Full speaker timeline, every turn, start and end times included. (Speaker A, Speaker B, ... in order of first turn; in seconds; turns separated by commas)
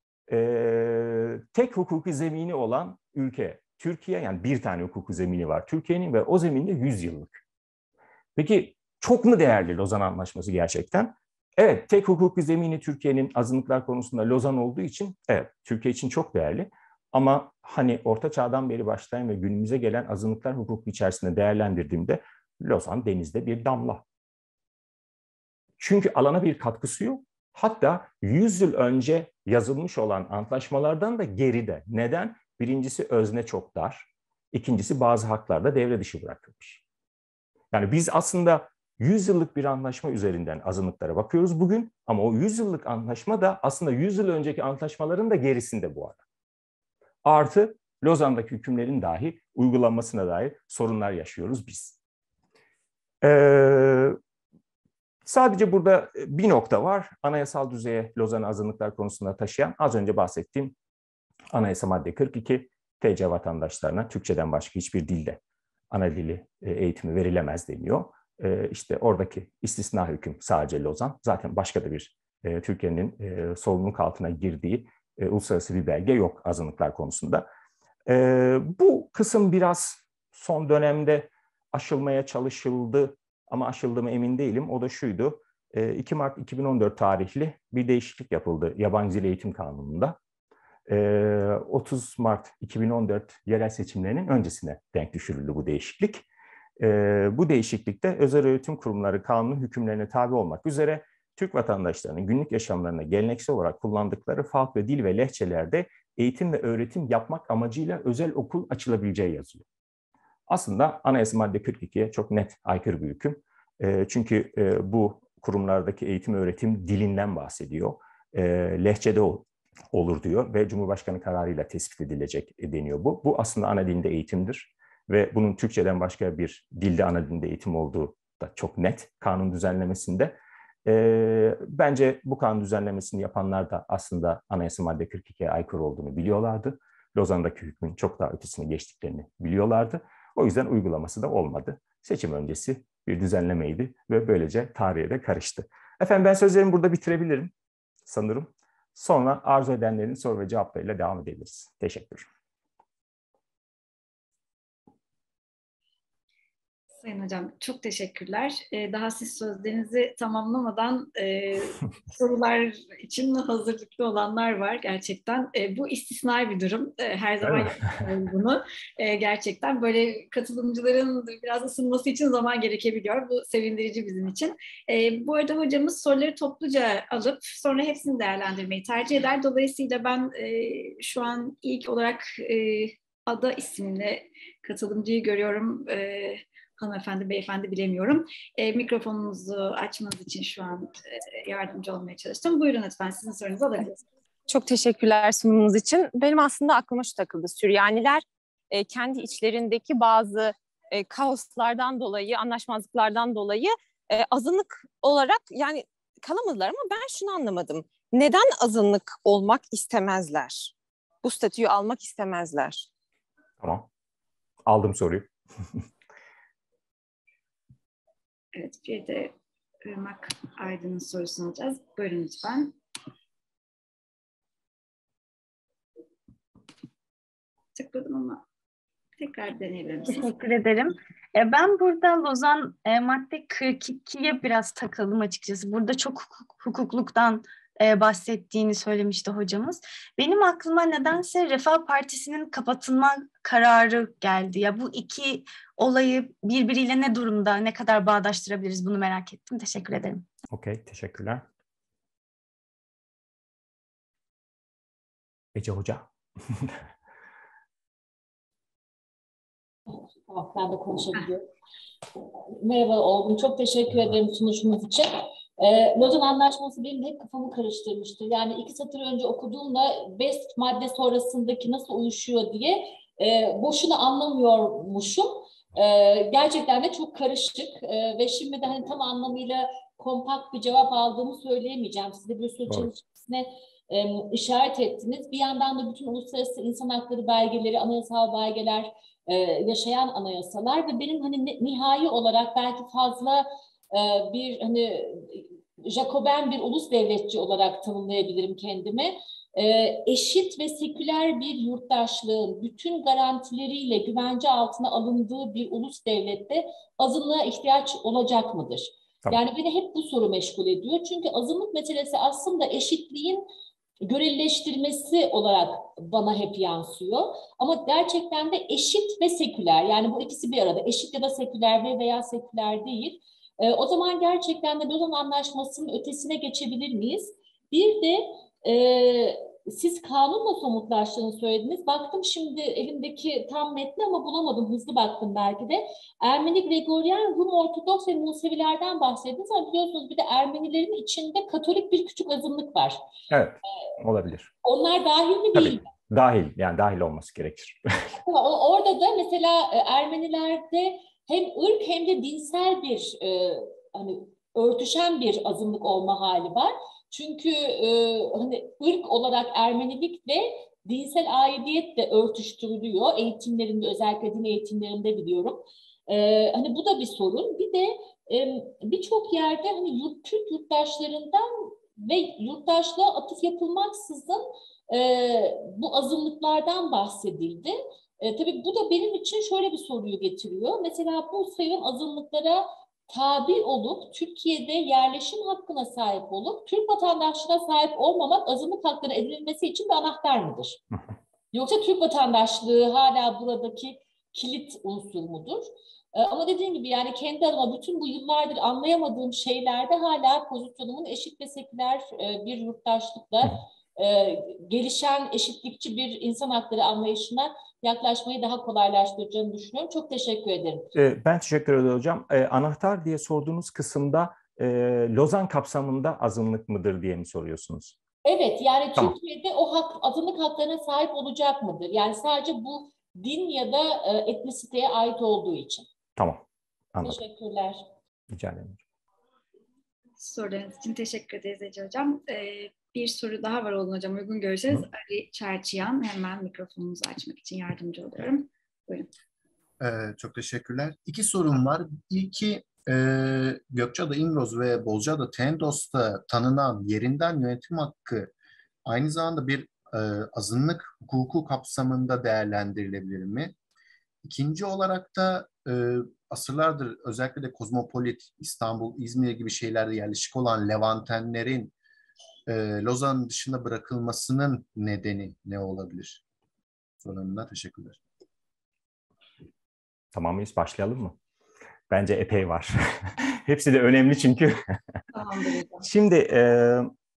Speaker A: 0.3-7.4, Speaker A: 8.4-24.0, Speaker A: 25.8-36.8, Speaker A: 37.7-46.2, Speaker A: 47.2-52.0, Speaker A: 53.2-54.2, Speaker A: 55.2-60.8, Speaker A: 61.5-65.4, Speaker A: 65.9-77.5, Speaker A: 78.1-90.2, Speaker A: 90.9-96.2, Speaker A: 96.8-109.7, Speaker A: 110.5-130.3, Speaker A: 130.8-147.5, Speaker A: 148.1-152.3, Speaker B: 157.0-194.0, Speaker C: 194.5-212.9, Speaker A: 213.6-213.9, Speaker A: 214.7-215.3, Speaker B: 218.5-219.3, Speaker B: 219.8-222.8, Speaker B: 227.8-228.4, Speaker B: 229.2-230.3, Speaker D: 230.1-250.2, Speaker A: 250.5-251.4, Speaker A: 255.6-256.7, Speaker E: 259.9-261.5, Speaker E: 262.5-313.5, Speaker E: 314.0-343.0, Speaker A: 343.3-344.5, Speaker E: 344.6-345.9, Speaker A: 345.6-348.1, Speaker E: 348.2-390.8, Speaker E: 391.5-410.9, Speaker A: 410.9-418.0, Speaker E: 418.2-425.9, Speaker A: 426.2-427.2, Speaker E: 427.1-427.8, Speaker A: 428.3-428.8, Speaker B: 430.2-439.1, Speaker F: 439.8-448.3, Speaker F: 448.9-453.6, Speaker F: 454.2-461.7, Speaker F: 462.5-466.2, Speaker F: 467.0-468.0, Speaker A: 470.1-471.2, Speaker A: 471.9-474.6, Speaker B: 475.1-475.9, Speaker A: 475.8-476.9